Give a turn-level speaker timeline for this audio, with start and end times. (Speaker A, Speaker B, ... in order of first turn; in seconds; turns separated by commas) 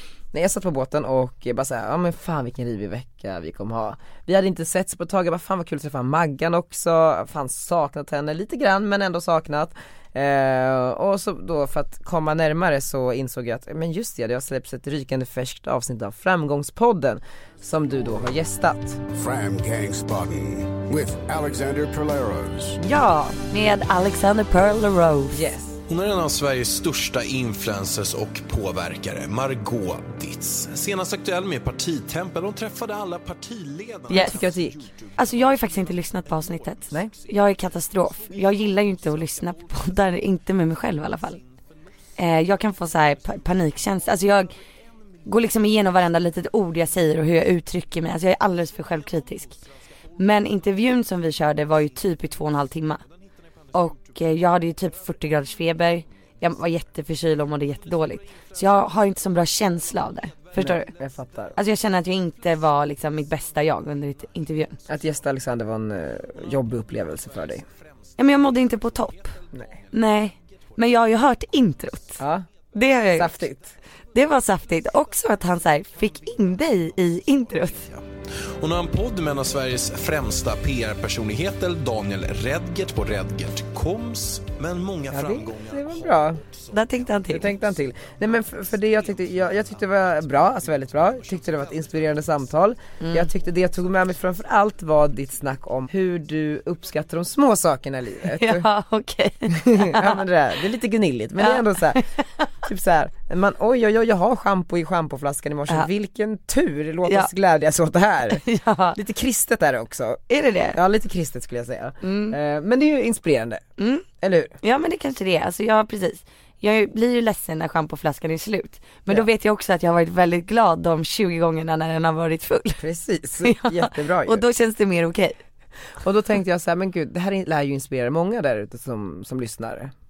Speaker A: 0.3-19.0, Speaker B: 19.1-22.8, Speaker C: 22.8-25.4, Speaker A: 25.3-25.8, Speaker D: 32.0-32.5, Speaker D: 33.4-78.8, Speaker C: 34.1-34.4, Speaker A: 34.2-34.8, Speaker C: 35.1-41.4, Speaker C: 42.2-44.5, Speaker C: 45.2-49.5, Speaker C: 50.2-53.0, Speaker C: 53.7-60.9, Speaker A: 60.6-61.5, Speaker C: 61.5-64.8, Speaker A: 64.9-67.6, Speaker C: 68.2-69.3, Speaker C: 69.9-72.2, Speaker A: 72.2-72.5, Speaker C: 72.7-73.4, Speaker A: 73.1-73.7, Speaker C: 74.1-77.8, Speaker D: 83.4-97.2, Speaker A: 85.1-86.4, Speaker C: 86.7-87.5, Speaker A: 87.3-98.7, Speaker C: 93.0-93.3, Speaker C: 98.4-100.2, Speaker A: 99.5-102.0, Speaker C: 101.4-102.0, Speaker A: 102.7-108.4, Speaker C: 108.3-109.0, Speaker A: 109.0-110.2, Speaker C: 110.3-110.8, Speaker A: 110.7-113.6, Speaker C: 112.0-112.4, Speaker C: 113.8-114.0, Speaker A: 114.2-114.5, Speaker C: 114.6-122.8, Speaker A: 122.8-124.4, Speaker C: 123.4-125.4, Speaker A: 126.0-129.9